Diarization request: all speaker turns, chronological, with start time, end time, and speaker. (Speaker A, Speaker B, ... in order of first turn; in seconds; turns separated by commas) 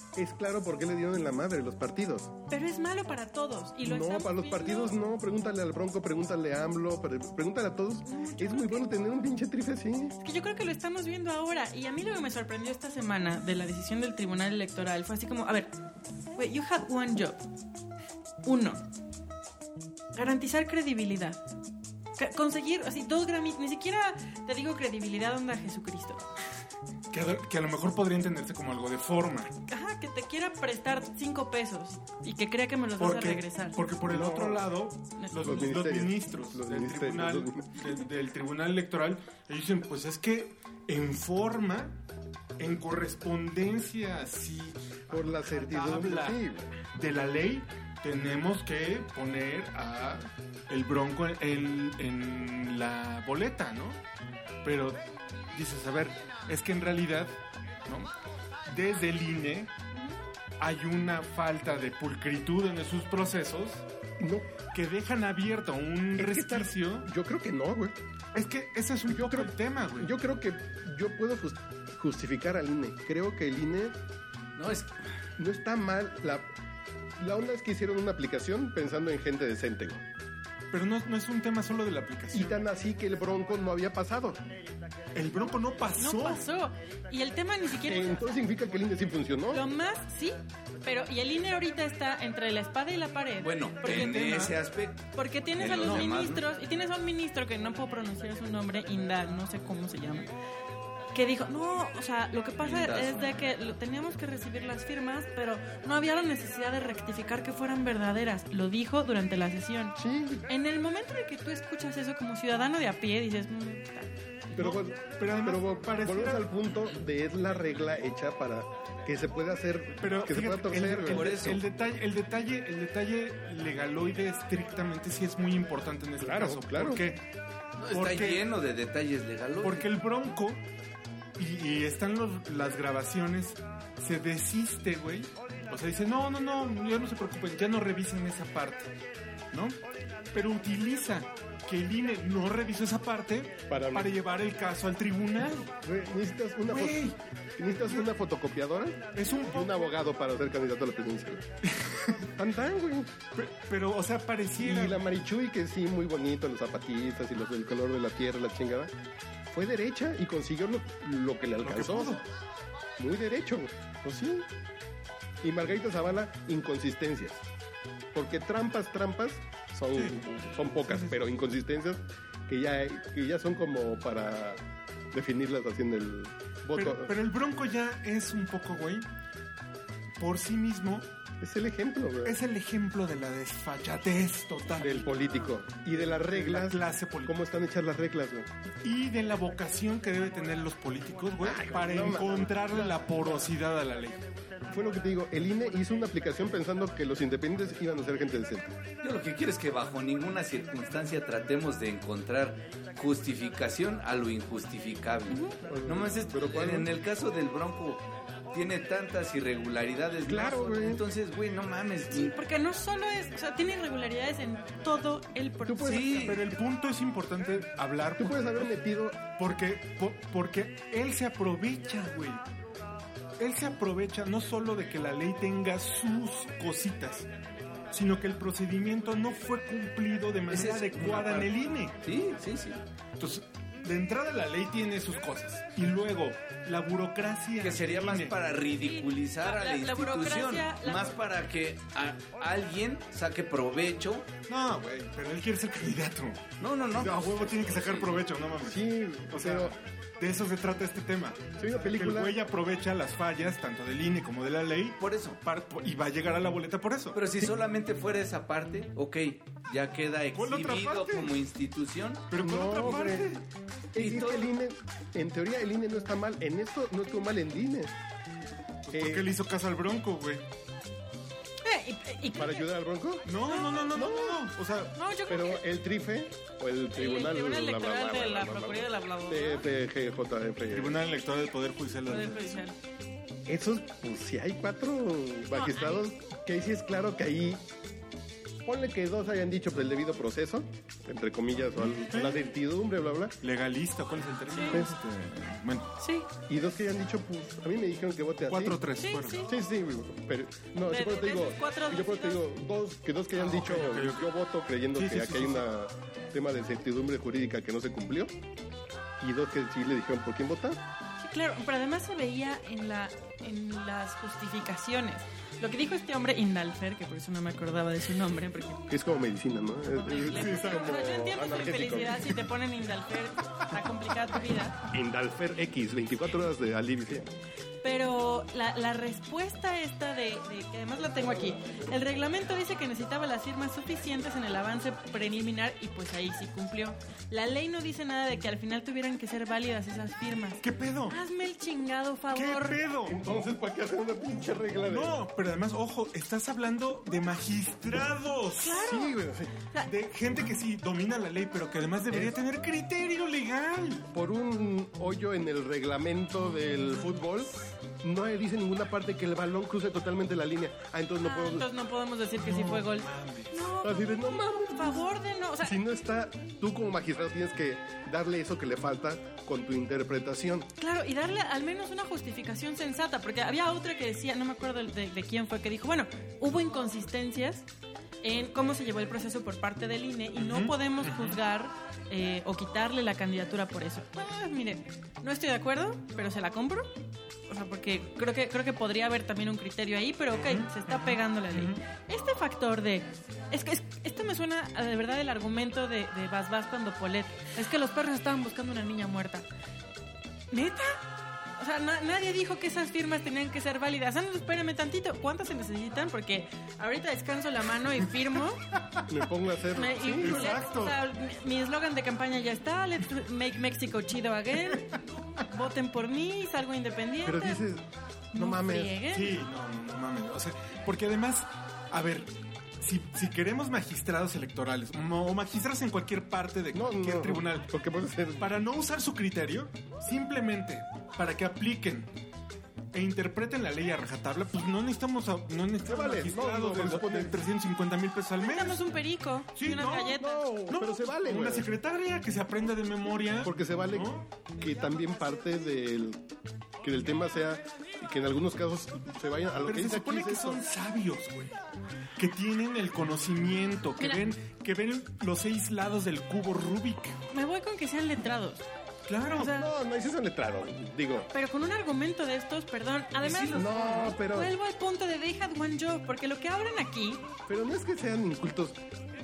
Speaker A: 0.2-2.3, Speaker B: 2.5-5.0, Speaker A: 3.8-10.2, Speaker B: 8.1-8.9, Speaker B: 10.2-15.7, Speaker B: 16.4-17.4, Speaker B: 18.4-18.8, Speaker B: 20.1-21.4, Speaker B: 22.2-26.2, Speaker C: 27.1-29.5, Speaker B: 29.7-33.8, Speaker C: 33.0-42.0, Speaker A: 34.1-34.7, Speaker B: 35.2-35.5, Speaker A: 35.4-37.8, Speaker C: 42.6-46.4, Speaker A: 45.1-46.7, Speaker C: 47.0-54.0, Speaker C: 54.6-55.0, Speaker C: 55.5-58.1, Speaker C: 58.7-59.7, Speaker C: 60.6-63.8, Speaker A: 64.2-64.5, Speaker C: 64.7-67.1, Speaker A: 66.2-68.0, Speaker C: 68.3-70.1, Speaker A: 69.1-74.0, Speaker D: 74.6-74.9, Speaker A: 75.4-76.5, Speaker A: 77.2-80.0, Speaker C: 80.7-82.6, Speaker A: 82.3-84.4, Speaker C: 85.1-86.4, Speaker B: 86.0-88.2, Speaker A: 87.8-89.7, Speaker B: 89.5-94.4, Speaker D: 93.4-96.5, Speaker C: 93.9-94.5, Speaker B: 95.2-100.3, Speaker B: 101.1-110.0, Speaker D: 102.6-103.5, Speaker A: 110.0-110.5, Speaker B: 110.5-114.1, Speaker C: 114.5-116.5, Speaker A: 114.5-121.4, Speaker C: 120.0-127.2, Speaker D: 121.1-121.6, Speaker A: 126.2-127.0, Speaker D: 127.8-129.9, Speaker C: 127.9-128.5, Speaker C: 129.6-130.6, Speaker C: 131.4-138.9, Speaker C: 139.5-139.8, Speaker C: 140.3-145.7, Speaker A: 143.7-144.1, Speaker A: 145.8-147.0, Speaker C: 146.7-147.2, Speaker A: 147.6-151.5, Speaker C: 149.1-149.9, Speaker C: 151.7-152.3, Speaker A: 152.4-153.1, Speaker C: 153.3-155.0, Speaker A: 154.6-158.9, Speaker A: 159.5-162.2, Speaker C: 161.6-162.2, Speaker A: 163.0-164.5, Speaker A: 165.4-167.4, Speaker A: 168.1-177.2, Speaker C: 170.9-171.1, Speaker C: 176.7-179.1, Speaker C: 180.2-181.1, Speaker A: 181.4-182.4, Speaker C: 182.2-185.1, Speaker A: 184.8-188.5, Speaker C: 186.1-187.4, Speaker C: 188.8-194.2, Speaker A: 191.4-193.5, Speaker A: 194.7-198.8, Speaker D: 199.0-212.3, Speaker B: 205.3-205.6, Speaker A: 205.7-206.9, Speaker A: 210.3-211.0, Speaker B: 212.1-216.1, Speaker A: 215.7-216.4, Speaker D: 215.8-216.4, Speaker C: 216.2-218.7, Speaker A: 218.2-219.3, Speaker C: 219.3-222.4, Speaker C: 223.4-227.3, Speaker C: 227.9-232.0, Speaker D: 230.5-232.8, Speaker C: 233.2-238.4, Speaker D: 237.6-244.3, Speaker B: 238.8-241.2, Speaker C: 244.5-257.2, Speaker D: 246.6-248.2, Speaker A: 248.6-249.8, Speaker A: 251.6-252.4, Speaker D: 255.0-255.4, Speaker D: 257.1-262.3, Speaker C: 260.3-261.3, Speaker C: 262.3-263.4, Speaker A: 262.4-263.4, Speaker A: 263.9-267.9, Speaker D: 264.0-264.5, Speaker C: 268.9-270.4, Speaker A: 268.9-269.3, Speaker B: 271.6-272.7, Speaker A: 272.3-273.3, Speaker C: 273.3-275.0, Speaker B: 273.4-273.9, Speaker A: 273.9-274.5, Speaker B: 274.9-275.6, Speaker A: 275.3-281.1, Speaker B: 276.9-279.7, Speaker C: 280.7-282.6, Speaker B: 282.1-282.8, Speaker A: 283.5-287.6, Speaker B: 285.5-286.1, Speaker A: 288.6-293.4, Speaker C: 291.9-292.5, Speaker C: 293.4-295.9, Speaker B: 294.5-294.8, Speaker B: 296.0-296.3, Speaker A: 296.5-298.8, Speaker C: 298.5-299.5, Speaker B: 299.0-299.5, Speaker A: 299.4-308.3, Speaker B: 300.9-302.4, Speaker C: 303.3-304.4, Speaker C: 304.9-305.7, Speaker A: 309.2-310.8, Speaker B: 311.2-318.9, Speaker A: 318.9-322.3, Speaker B: 319.9-324.8, Speaker C: 320.4-320.9, Speaker A: 324.9-327.3, Speaker B: 327.8-342.8, Speaker C: 340.6-341.2, Speaker C: 342.3-343.2, Speaker A: 343.0-345.2, Speaker C: 344.9-348.8, Speaker B: 348.6-349.1, Speaker A: 348.7-349.5, Speaker C: 349.8-354.1, Speaker A: 352.1-352.4, Speaker A: 354.1-361.7, Speaker B: 361.2-365.8, Speaker C: 362.4-363.7, Speaker A: 363.8-365.1, Speaker A: 365.6-370.7, Speaker B: 370.8-377.7, Speaker B: 378.2-386.9, Speaker C: 380.4-381.4, Speaker B: 387.5-399.5, Speaker C: 390.3-391.8, Speaker B: 400.5-401.0, Speaker B: 401.6-408.6, Speaker A: 409.1-410.5, Speaker B: 409.7-417.6, Speaker C: 410.2-411.0, Speaker A: 417.2-419.0, Speaker B: 418.4-419.4, Speaker C: 419.1-427.7, Speaker A: 426.7-428.6, Speaker C: 428.4-432.1, Speaker C: 432.9-438.9, Speaker A: 435.8-437.4, Speaker B: 438.4-440.4, Speaker C: 439.6-444.3, Speaker A: 440.2-441.7, Speaker A: 443.4-446.2, Speaker A: 446.8-450.6, Speaker C: 449.7-451.6, Speaker C: 452.2-457.2, Speaker B: 457.3-458.6, Speaker C: 459.1-459.5, Speaker B: 459.4-459.7, Speaker A: 459.4-461.3, Speaker B: 461.3-467.2, Speaker D: 463.2-464.0, Speaker A: 463.5-464.5, Speaker A: 467.5-468.8